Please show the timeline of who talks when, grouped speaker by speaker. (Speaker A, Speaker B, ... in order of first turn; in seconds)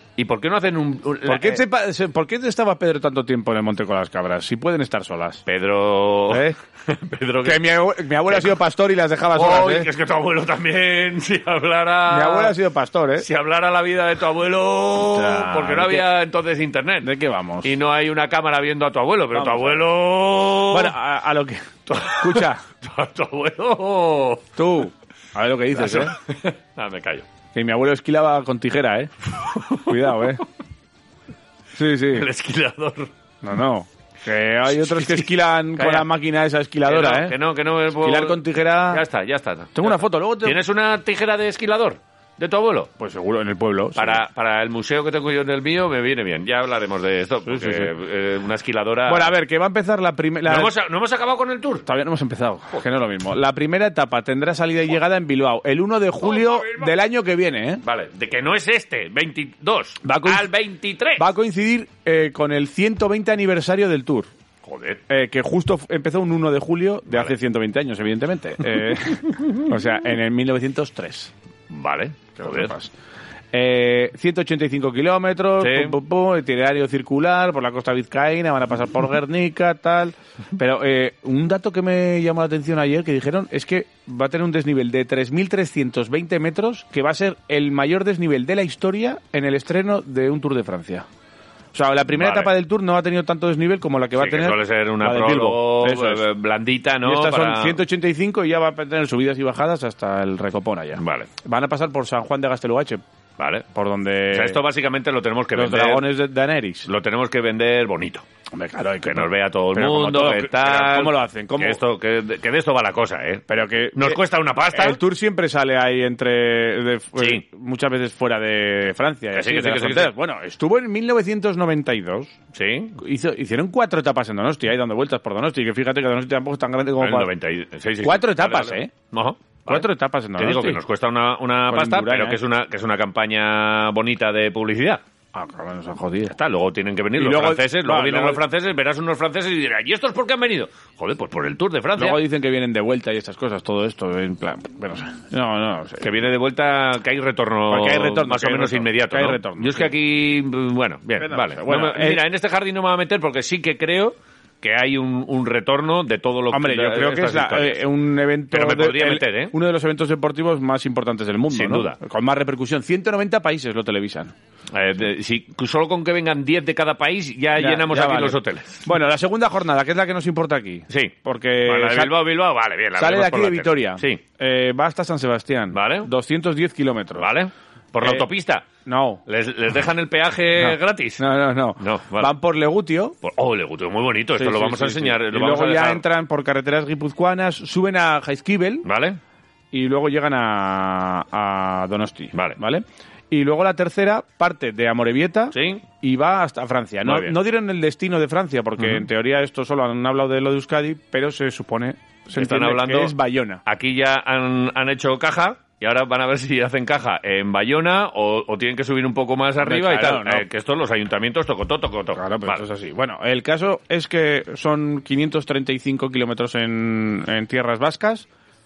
Speaker A: 0.2-1.6, 5.5-7.6, 8.3-8.6, 9.3-12.5, 13.2-17.1, 17.6-20.9, 21.9-24.5, 25.8-27.3, 29.4-30.4, 32.1-33.1, 34.8-36.1, 36.9-42.9, 44.0-49.3, 50.5-51.9, 56.2-56.9, 57.8-61.3, 64.6-65.0, 71.7-72.7, 75.6-76.0, 92.1-92.5, 94.2-97.8, 101.0-101.3, 103.4-103.7, 104.3-106.1, 106.9-108.2, 109.1-115.0, 117.2-117.4, 119.3-120.1, 122.5-123.0, 127.0-135.0, 136.3-142.2, 146.0-157.8, 158.5-159.5, 161.5-162.0, 164.7-168.9, 170.9-174.2, 175.7-176.1, 177.2-178.7, 179.3-181.2, 181.8-182.3, 183.2-186.0, 188.8-189.2, 192.3-192.6, 195.5-195.8, 197.0-197.4, 198.8-199.1, 202.4-203.1, 203.7-212.6
Speaker B: 1.3-5.4, 6.3-6.6, 7.4-9.9, 12.1-13.3, 15.0-16.1, 17.0-17.7, 19.3-19.9, 20.7-22.6, 24.6-26.2, 27.5-29.1, 29.9-30.4, 31.8-32.3, 33.4-37.4, 38.0-39.0, 39.7-40.6, 43.0-44.2, 47.5-47.9, 49.1-50.7, 51.9-57.8, 60.0-60.5, 61.2-64.3, 65.1-71.3, 72.4-72.9, 73.5-91.1, 91.7-96.3, 97.0-103.0, 103.7-104.6, 105.5-106.9, 108.5-111.8, 113.5-114.2, 114.7-122.3, 123.0-127.3, 128.0-128.9, 129.7-130.8, 131.7-132.4, 135.3-136.4, 137.2-138.4, 142.0-146.1, 147.7-149.9, 151.2-152.2, 156.5-164.3, 167.6-172.2, 173.0-177.3, 178.9-179.2, 180.6-183.2, 184.4-188.9, 189.7-203.6, 209.6-210.5, 212.2-218.3